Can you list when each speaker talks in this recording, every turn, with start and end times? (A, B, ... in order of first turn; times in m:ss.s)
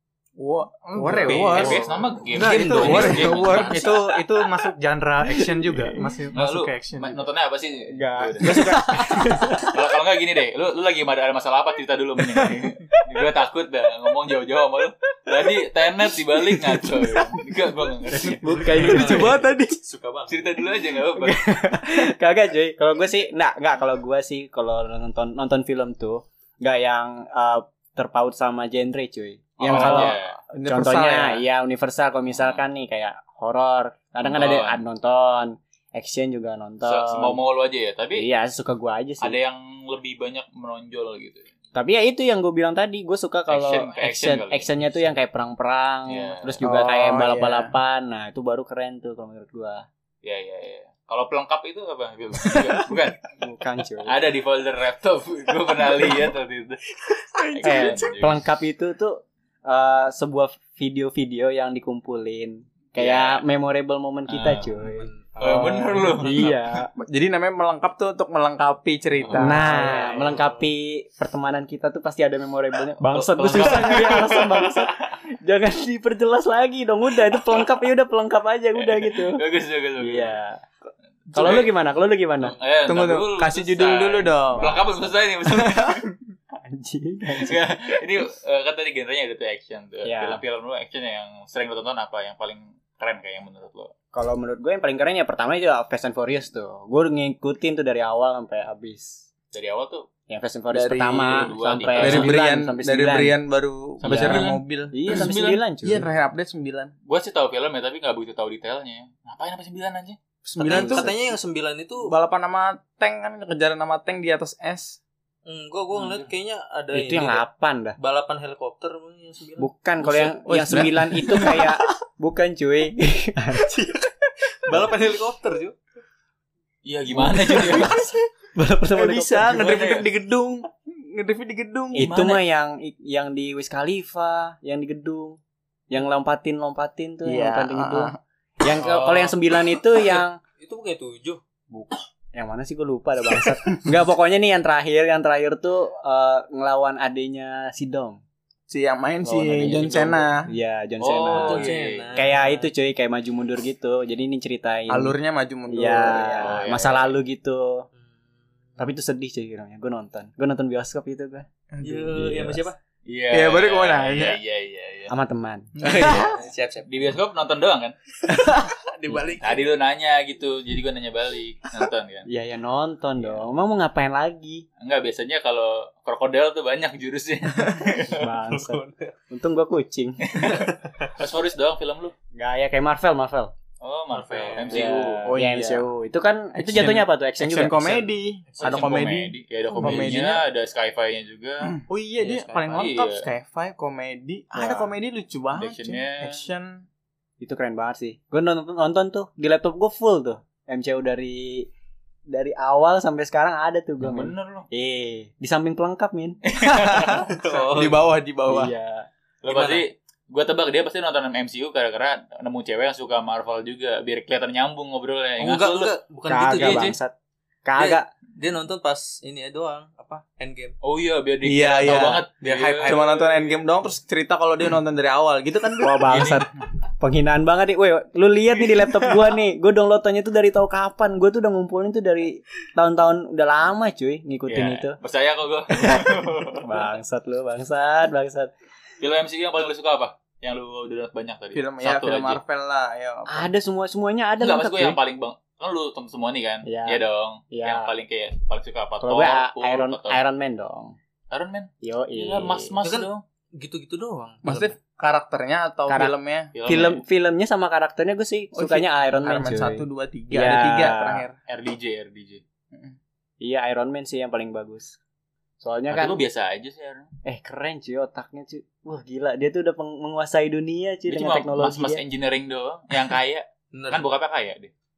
0:00.4-0:03.9 A
0:01.0-0:01.8 B
0:01.3-0:04.1 C
0:02.4-0:03.5 D
0:02.4-0:07.2 B
0:06.3-0:08.7 C
0:07.9-0:09.6 E
0:08.4-0:09.7 A
0:09.6-0:19.2 C
0:16.5-0:17.3 A
0:18.1-0:19.4 E
0:18.4-0:19.8 A
0:18.7-0:20.6 D
0:20.3-0:21.4 C
0:21.1-0:37.4 E
0:29.6-0:30.4 C
0:29.6-0:31.4 A
0:32.3-0:32.6 C
0:34.2-0:34.8 C
0:36.8-0:38.3 C
0:38.2-0:39.4 E
0:39.2-0:41.5 C
0:41.7-0:49.8 E
0:43.5-0:45.1 C
0:46.1-0:46.6 C
0:46.6-0:47.7 A
0:50.2-0:53.2 C
0:53.4-0:54.2 E
0:54.0-0:56.8 C
0:57.3-0:58.1 A
0:57.4-0:58.4 C
0:57.6-1:06.9 E
1:03.0-1:03.4 C
1:04.3-1:04.6 C
1:04.5-1:06.5 D
1:05.4-1:06.5 C
1:07.0-1:09.9 A
1:09.3-1:19.4 E
1:09.6-1:10.6 D
1:13.1-1:15.1 C
1:13.6-1:14.1 A
1:18.8-1:20.4 C
1:20.0-1:20.6 E
1:21.3-1:21.7 C
1:21.3-1:22.6 E
1:22.4-1:26.0 C
1:22.8-1:24.8 A
1:24.5-1:25.1 E
1:25.5-1:26.0 A
1:26.5-1:28.0 E
1:27.3-1:33.9 C
1:30.0-1:30.4 E
1:34.1-1:39.3 E
1:39.5-1:40.1 C
1:40.3-1:43.4 E
1:40.7-1:45.3 A
1:41.3-1:42.3 C
1:44.0-1:45.6 C
1:44.0-1:46.0 E
1:45.8-1:46.9 A
1:47.0-1:50.2 C
1:50.4-1:51.1 A
1:50.6-1:52.1 D
1:50.7-1:51.1 E
1:52.1-1:55.0 A
1:55.4-1:57.4 D
1:55.9-1:56.3 C
1:56.9-1:58.0 E
1:58.0-2:01.6 D
1:59.6-2:03.8 E
2:00.4-2:01.6 A
2:04.6-2:05.8 D
2:06.8-2:08.0 C
2:07.1-2:09.8 E
2:07.5-2:08.1 A
2:08.9-2:12.1 A
2:09.5-2:10.0 C
2:11.9-2:15.4 E
2:12.0-2:12.4 C
2:15.9-2:20.4 E
2:17.2-2:18.2 A
2:18.7-2:21.4 D
2:21.7-2:28.2 E
2:28.7-2:30.5 A
2:29.2-2:35.2 E
2:31.0-2:32.2 C
2:31.3-2:32.6 D
2:34.9-2:36.6 A
2:35.7-2:37.9 E
2:36.4-2:37.2 C
2:38.8-2:41.4 E
2:41.7-2:42.5 A
2:41.8-2:42.8 D
2:42.1-2:42.6 E
2:43.0-2:45.1 C
2:43.3-2:44.4 A
2:45.1-2:45.7 E
2:45.8-2:46.3 A
2:45.8-2:47.2 D
2:45.9-2:46.3 C
2:46.8-2:47.9 C
2:48.3-2:48.7 A
2:48.4-2:49.7 D
2:49.4-2:52.3 C
2:52.3-2:54.6 E
2:54.8-2:58.3 C
2:58.1-3:00.3 E
2:58.5-2:59.1 D
3:00.3-3:02.1 C
3:02.3-3:03.5 E
3:03.8-3:05.3 C
3:04.1-3:04.9 D
3:04.7-3:08.0 E
3:05.2-3:05.9 A
3:06.5-3:10.4 A
3:08.5-3:09.0 D
3:08.6-3:11.8 C
3:11.8-3:16.8 A
3:12.2-3:12.9 D
3:12.7-3:13.2 C
3:14.6-3:14.9 E
3:15.5-3:16.4 C
3:17.4-3:21.7 E
3:22.3-3:26.4 E
3:24.0-3:24.7 C
3:26.4-3:27.3 C
3:26.6-3:28.7 A
3:27.3-3:28.1 D
3:28.5-3:29.1 E
3:29.4-3:35.9 C
3:29.5-3:29.8 D
3:35.4-3:36.9 D
3:36.3-3:37.1 E
3:36.5-3:37.0 C
3:37.6-3:38.1 E
3:37.8-3:40.8 D
3:40.8-3:43.0 C
3:41.4-3:42.3 A
3:42.4-3:43.6 D
3:42.8-3:46.0 A
3:45.8-3:55.0 E
3:46.1-3:46.4 C
3:54.5-3:56.8 C
3:55.8-3:56.1 E
3:56.6-3:58.5 E
3:59.0-4:02.4 C
4:01.5-4:03.5 A
4:03.3-4:05.0 E
4:04.4-4:10.2 C
4:06.6-4:07.9 E
4:09.0-4:11.0 E
4:11.3-4:13.2 C
4:11.8-4:12.7 E
4:12.8-4:14.7 D
4:14.4-4:16.5 A
4:15.9-4:21.2 E
4:16.5-4:17.0 C
4:18.5-4:21.4 A
4:21.5-4:22.4 C
4:23.4-4:25.0 E
4:25.6-4:26.2 E
4:25.9-4:27.1 C
4:27.2-4:32.0 E
4:31.1-4:34.7 C
4:33.7-4:34.1 D